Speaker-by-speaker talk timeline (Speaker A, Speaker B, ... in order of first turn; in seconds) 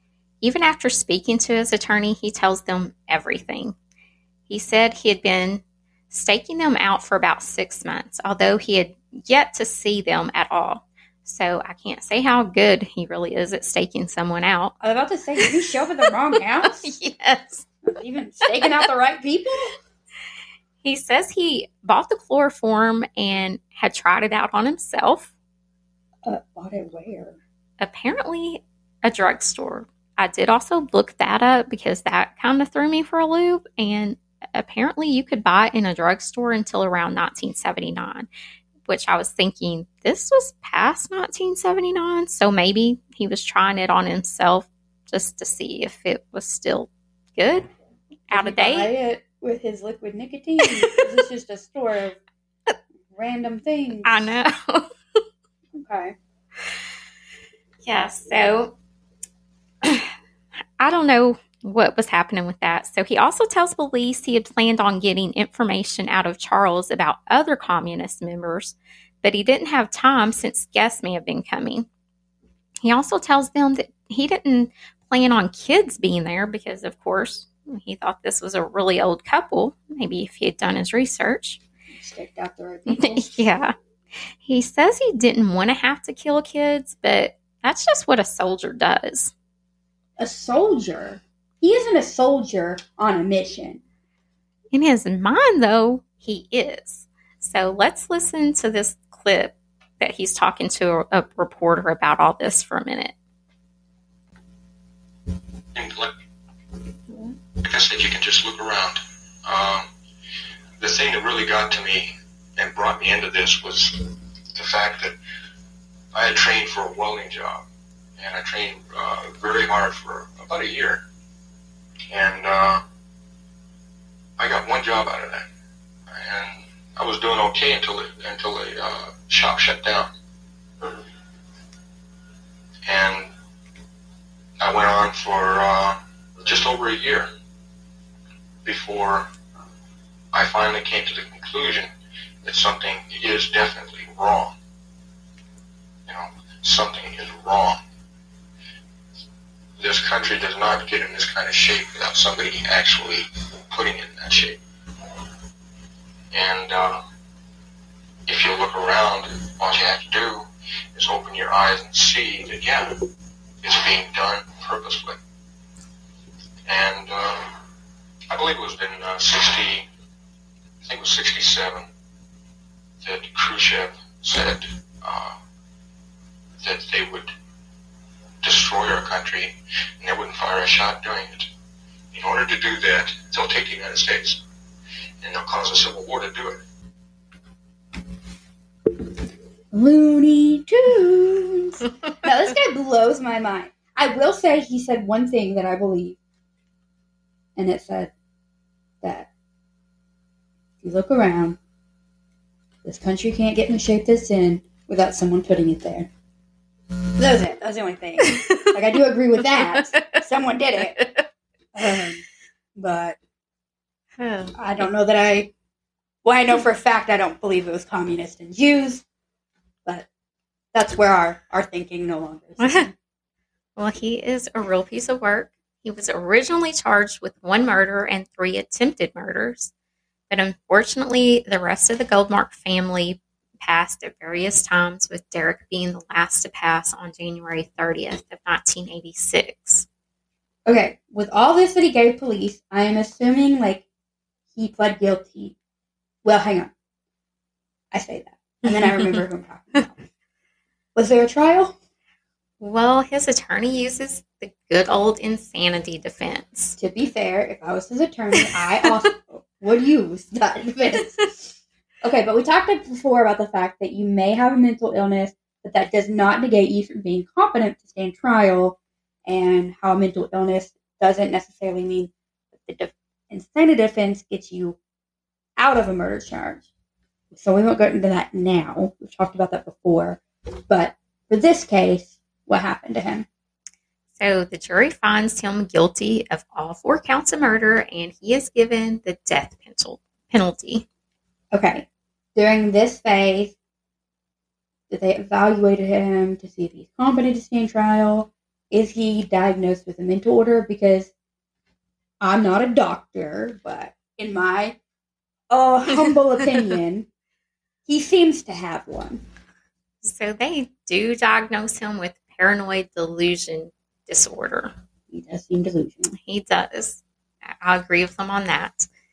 Speaker A: 0.4-3.8, 4.5-14.7, 16.6-17.6, 20.8-25.3, 27.8-38.3, 38.9-47.7, 48.3-48.9, 54.0-54.9, 57.8-58.7, 59.8-60.1, 60.8-71.9, 72.8-81.6, 82.9-83.7, 84.4-89.3, 94.7-103.1, 208.4-208.7, 214.2-214.5, 223.8-229.7, 230.3-239.8, 248.7-249.2, 252.6-256.8, 284.2-290.9, 310.0-314.7, 316.2-318.9
Speaker B: 14.8-16.9, 17.8-19.7, 26.2-27.4, 48.3-52.2, 53.1-54.3, 55.7-56.1, 81.9-83.4, 90.2-93.8, 189.7-196.2, 197.6-198.1, 199.0-199.3, 200.8-201.6, 202.8-206.1, 207.2-211.1, 211.7-212.2, 212.8-213.2, 214.6-215.5, 216.2-219.0, 220.7-222.9, 240.7-243.8, 244.5-245.6, 246.2-246.7, 247.9-250.0, 250.9-251.7, 256.8-274.8, 275.6-276.7, 277.3-283.3, 291.5-293.6, 294.9-301.1, 302.2-304.8, 305.5-307.1, 307.9-309.2, 315.1-316.1
Speaker C: 105.7-106.1, 107.6-109.9, 110.8-114.0, 114.5-115.1, 116.1-117.6, 118.2-121.0, 122.1-122.8, 124.4-125.4, 126.1-130.1, 132.8-133.3, 134.6-137.3, 138.6-139.3, 140.3-141.9, 142.4-144.5, 146.1-147.8, 149.8-154.6, 156.3-157.0, 158.3-163.0, 163.6-165.2, 166.7-167.5, 168.3-169.8, 170.8-171.8, 173.0-175.4, 176.6-177.3, 178.4-181.5, 182.1-184.4, 185.2-186.6